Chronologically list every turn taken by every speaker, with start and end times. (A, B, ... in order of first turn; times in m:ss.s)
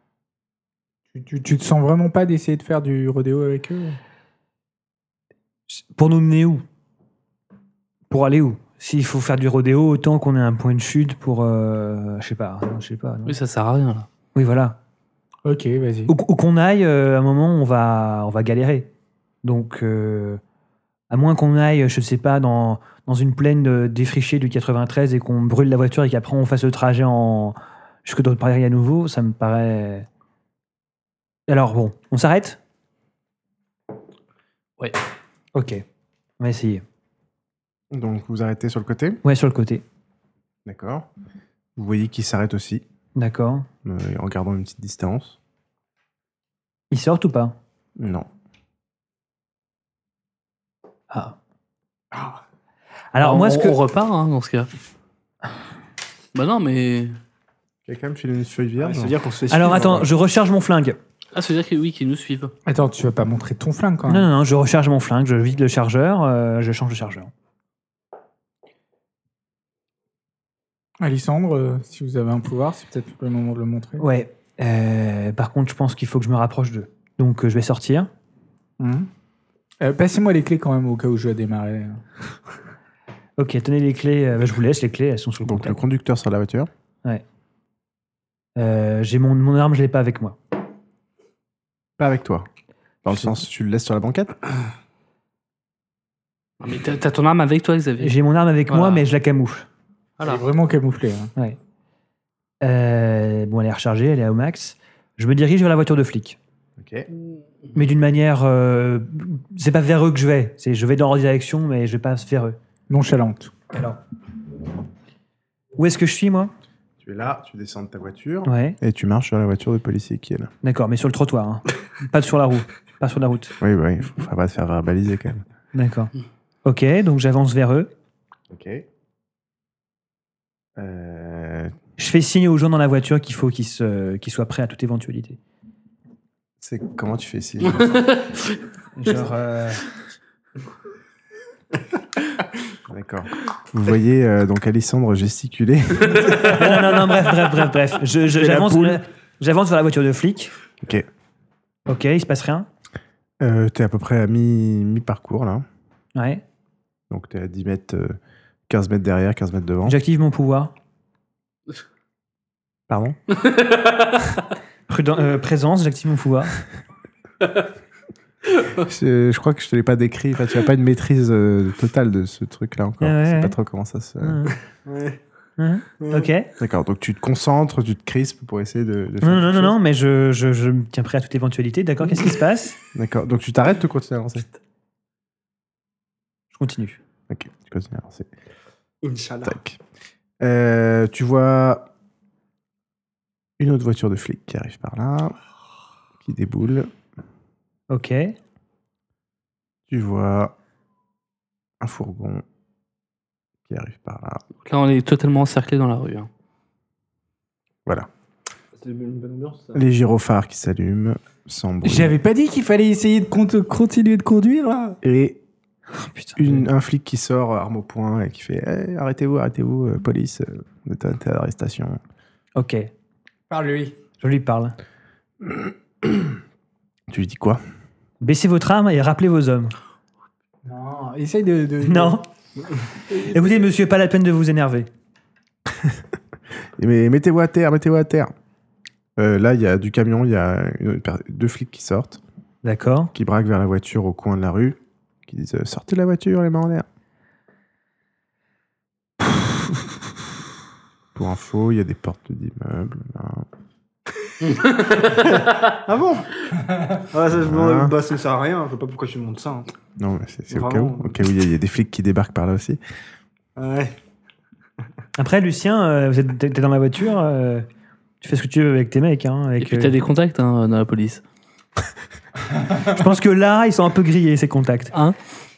0:01.1-0:04.0 A
0:05.7-0:06.6 B
0:08.1-0:13.4 B
0:13.2-0:14.1 C
0:14.3-0:14.8 B
0:15.4-0:16.1 A
0:16.1-0:18.9 B
0:19.4-0:20.4 B
0:21.1-0:30.1 B
0:31.5-0:32.6 B
0:35.5-0:35.8 B
0:36.4-0:36.8 B
0:37.9-0:39.2 D
0:39.2-0:39.8 B
0:40.6-0:41.1 D
0:41.8-0:42.8 D
0:43.2-0:43.7 B
0:43.8-0:45.4 D
0:46.9-0:47.6 B
0:48.0-0:48.3 D
0:51.1-0:51.4 B
0:52.1-0:52.4 E
0:53.1-0:53.8 B
0:53.2-0:54.7 C
0:56.3-0:57.1 C
0:57.8-0:59.2 D
0:58.8-1:00.1 E
0:59.5-1:01.0 B
1:01.3-1:02.5 C
1:02.6-1:04.3 A
1:04.1-1:07.3 B
1:11.0-1:14.0 A
1:14.0-1:18.1 B
1:18.8-1:19.1 A
1:19.8-1:22.0 A
1:23.4-1:25.8 B
1:25.4-1:26.7 D
1:28.6-1:30.4 B
1:32.0-1:32.5 D
1:33.0-1:34.3 D
1:36.6-1:38.1 C
1:38.0-1:39.7 B
1:38.7-1:39.0 C
1:40.2-1:40.4 C
1:40.2-1:41.3 A
1:42.6-1:46.4 B
1:46.8-1:47.1 D
1:47.7-1:52.6 B
1:52.9-1:53.5 A
1:53.7-1:54.0 B
1:55.8-1:56.5 B
1:57.0-2:00.5 D
1:58.4-1:58.8 B
2:00.6-2:03.6 B
2:03.6-2:05.4 D
2:05.7-2:06.1 B
2:06.6-2:07.9 B
2:08.5-2:08.8 D
2:10.8-2:11.7 D
2:12.0-2:15.4 B
2:16.6-2:18.0 D
2:17.8-2:18.5 C
2:19.0-2:19.8 B
2:22.9-2:26.8 D
2:26.2-2:30.5 B
2:28.3-2:29.0 D
2:30.8-2:31.1 D
2:31.9-2:32.7 B
2:33.4-2:35.6 D
2:36.1-2:36.4 B
2:37.1-2:38.2 D
2:38.7-2:40.0 D
2:39.8-2:40.7 B
2:42.9-2:43.2 D
2:43.4-2:44.4 C
2:44.9-2:46.6 B
2:48.8-2:54.4 D
2:53.0-2:53.6 B
2:54.2-2:54.5 B
2:54.8-2:55.2 E
2:55.6-2:56.5 B
2:56.0-2:56.3 E
2:56.6-2:59.8 D
2:59.2-3:02.8 B
3:02.9-3:04.4 D
3:06.5-3:07.0 B
3:07.3-3:08.3 D
3:09.0-3:09.6 E
3:09.4-3:09.8 D
3:10.4-3:11.9 D
3:13.6-3:15.4 D
3:16.2-3:16.9 D
3:17.9-3:18.3 B
3:19.9-3:20.5 D
3:21.8-3:22.4 D
3:23.7-3:24.4 D
3:24.6-3:26.3 C
3:28.7-3:29.8 E
3:29.7-3:32.2 D
3:31.8-3:35.0 A
3:35.0-3:35.4 D
3:36.0-3:36.7 B
3:36.4-3:42.0 D
3:42.6-3:42.9 B
3:43.5-3:44.0 A
3:44.2-3:44.8 B
3:47.1-3:47.6 D
3:48.2-3:49.7 B
3:50.6-3:52.2 A
3:51.8-3:52.2 B
3:53.1-3:54.9 B
3:56.8-3:58.3 D
3:59.2-4:02.2 D
4:02.6-4:03.1 B
4:03.1-4:06.8 D
4:11.1-4:13.5 D
4:14.4-4:15.6 C
4:15.1-4:16.3 E
4:16.9-4:19.7 E
4:17.4-4:17.9 D
4:20.0-4:22.8 D
4:20.5-4:21.2 E
4:23.6-4:23.9 E
4:25.2-4:27.6 B
4:28.2-4:29.9 B
4:29.6-4:31.2 C
4:32.9-4:34.9 B